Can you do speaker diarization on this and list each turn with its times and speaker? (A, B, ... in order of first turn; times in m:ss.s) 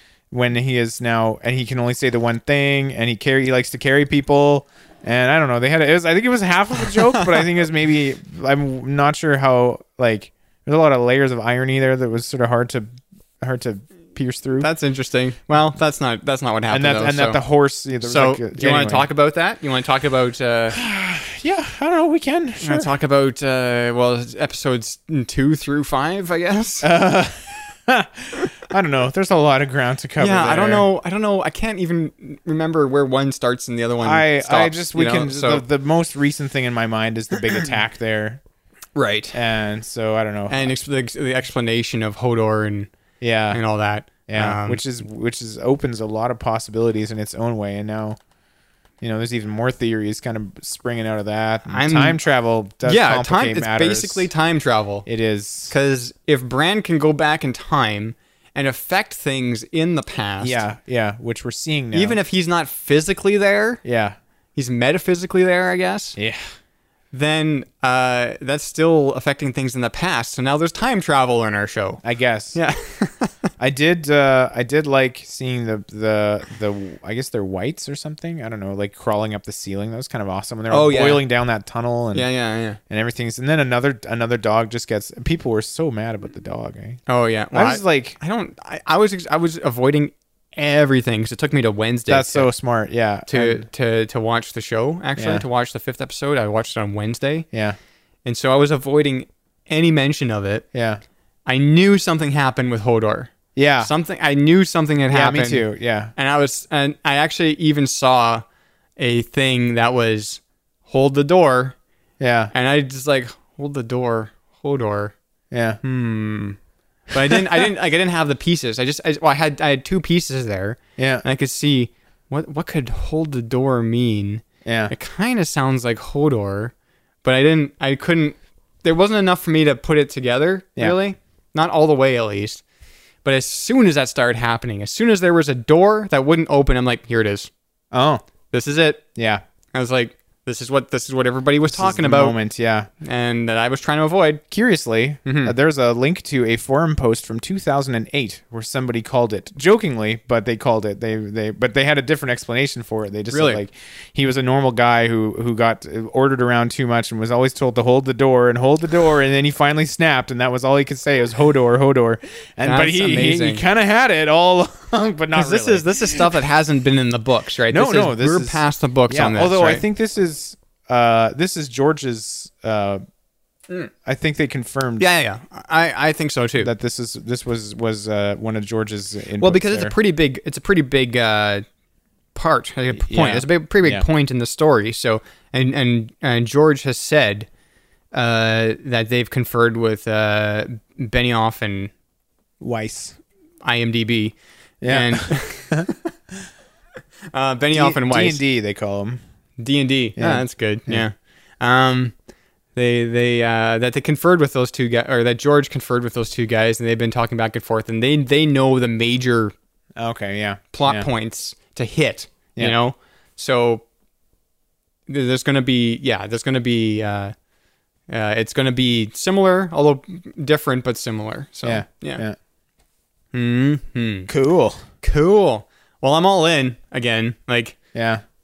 0:00.3-0:14.7 A
0:06.9-0:07.4 B
0:14.6-0:17.4 B
0:16.7-0:19.1 A
0:18.0-0:20.8 B
0:20.7-0:22.9 A
0:22.6-0:26.9 B
0:26.8-0:30.9 A
0:30.2-0:35.6 B
0:34.0-0:38.4 A
0:39.0-0:39.4 B
0:39.3-0:40.8 A
0:40.5-0:42.9 B
0:43.2-0:43.6 A
0:43.5-0:44.8 B
0:44.3-0:48.2 A
0:49.0-0:54.3 A
0:51.7-0:52.2 B
0:52.8-0:55.1 B
0:55.0-0:55.7 A
0:55.7-1:00.6 B
1:00.4-1:02.2 A
1:01.9-1:03.8 B
1:03.8-1:04.2 A
1:04.6-1:06.2 B
1:06.2-1:06.5 A
1:07.1-1:12.0 B
1:12.0-1:12.6 A
1:12.5-1:13.3 B
1:13.6-1:22.3 A
1:20.7-1:21.2 B
1:22.1-1:22.8 B
1:22.9-1:27.0 A
1:27.1-1:32.5 B
1:27.5-1:28.2 A
1:32.1-1:33.7 A
1:33.3-1:37.5 B
1:35.2-1:35.4 A
1:37.5-1:37.8 A
1:38.2-1:40.6 B
1:40.7-1:41.0 A
1:41.5-1:48.4 B
1:43.6-1:43.9 A
1:45.1-1:46.1 A
1:49.0-1:51.8 B
1:52.2-1:52.5 A
1:52.5-1:55.1 B
1:55.5-1:55.8 A
1:55.8-1:56.6 B
1:57.1-2:06.7 B
2:01.0-2:01.2 A
2:04.6-2:04.9 A
2:07.2-2:12.6 B
2:13.2-2:17.5 B
2:17.9-2:18.2 A
2:18.5-2:19.0 B
2:19.2-2:19.4 A
2:19.7-2:22.4 B
2:21.6-2:22.9 A
2:23.0-2:24.4 B
2:24.5-2:46.4 A
2:25.2-2:25.5 B
2:33.3-2:33.6 B
2:42.6-2:43.6 B
2:45.3-2:49.8 B
2:47.7-2:53.0 A
2:54.0-2:55.1 A
2:55.0-2:56.7 B
2:56.6-3:00.0 A
2:59.4-3:01.6 B
3:02.4-3:07.5 B
3:03.0-3:04.1 A
3:08.1-3:11.9 B
3:12.6-3:13.2 A
3:13.6-3:15.8 B
3:14.8-3:15.9 A
3:17.3-3:18.4 B
3:17.7-3:19.2 A
3:19.6-3:22.1 B
3:20.2-3:21.0 A
3:22.8-3:29.5 B
3:30.0-3:31.1 A
3:30.7-3:33.8 B
3:35.1-3:37.3 B
3:38.1-3:42.2 B
3:41.6-3:42.4 A
3:43.3-3:44.3 B
3:44.3-3:44.8 A
3:45.0-3:47.8 B
3:47.9-3:48.2 A